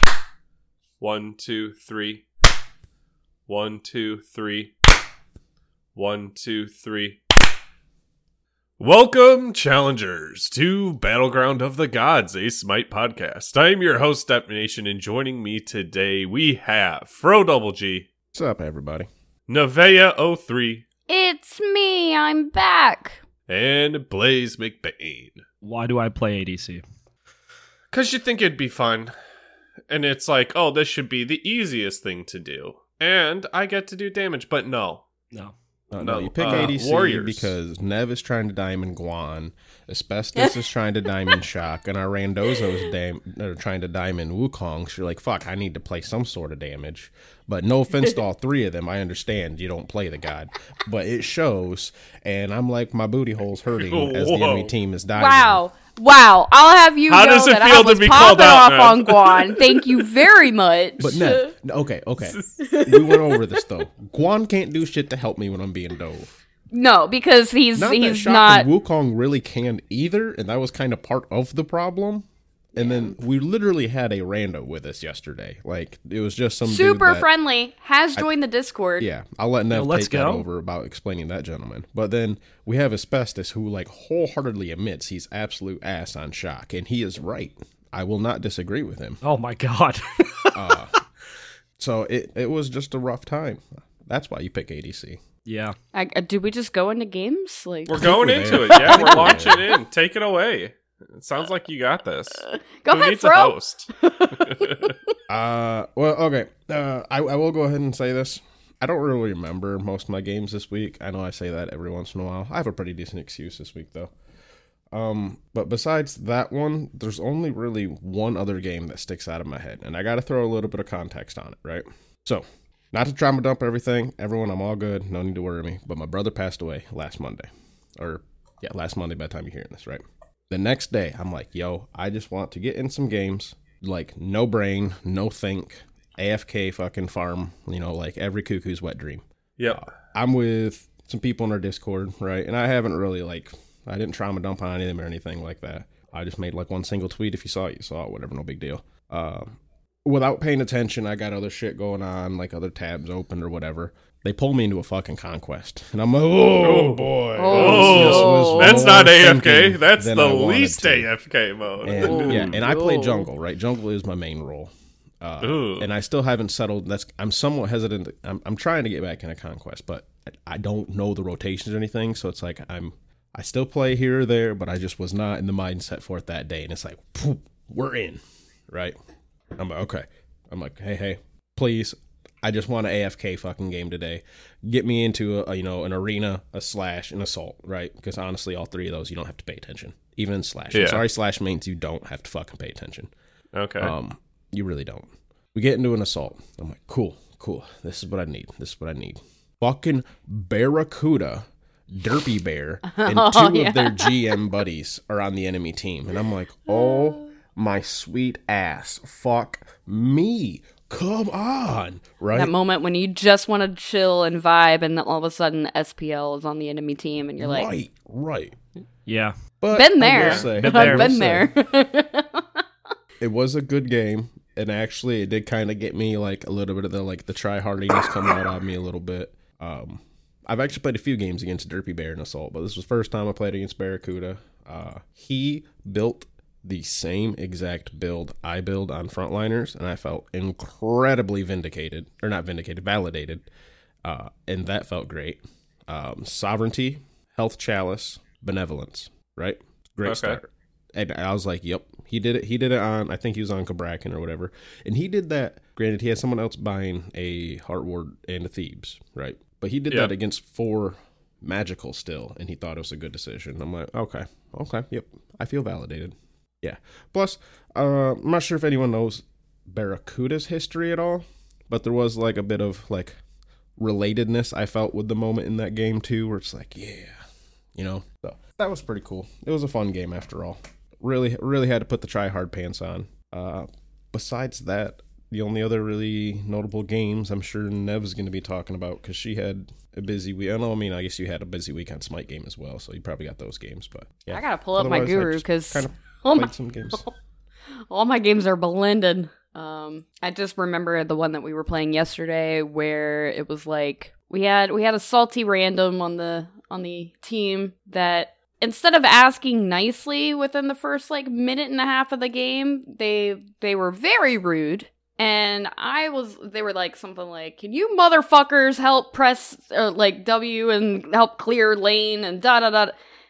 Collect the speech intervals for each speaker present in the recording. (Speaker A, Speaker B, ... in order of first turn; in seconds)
Speaker A: 1.0-2.2, 3.5-4.7, 5.9-7.2, 8.8-18.1, 19.5-20.8, 23.5-25.4, 27.9-29.1, 29.9-35.0, 36.0-37.5, 53.8-54.7, 57.1-60.0, 97.9-104.9, 139.6-139.9, 156.6-162.5, 165.4-165.9, 190.7-191.0, 193.5-193.9, 220.1-220.5, 250.0-250.4
Speaker B: 18.3-19.1, 35.9-55.6, 61.0-66.3, 67.7-77.2, 79.0-89.2, 90.5-91.0, 91.8-95.2, 97.9-99.7, 105.3-114.1, 114.9-161.1, 161.8-178.9, 179.6-193.1, 193.8-212.5, 217.4-218.6, 219.6-221.5, 223.2-243.5, 244.0-273.2, 273.8-277.2, 277.7-297.0
Speaker C: 21.1-23.2, 55.1-61.5, 62.6-63.6, 66.7-68.7, 72.8-73.2, 76.6-79.0, 95.9-98.0, 102.5-104.9, 157.4-158.9, 161.9-163.3, 202.9-204.1, 206.7-207.3, 212.3-217.7, 219.7-222.4, 294.3-297.1, 297.9-322.9
Speaker D: 25.6-26.8, 36.5-36.7, 79.7-80.4, 89.2-90.8, 95.5-95.8, 98.4-99.5, 162.3-162.6, 219.1-219.3, 220.6-221.1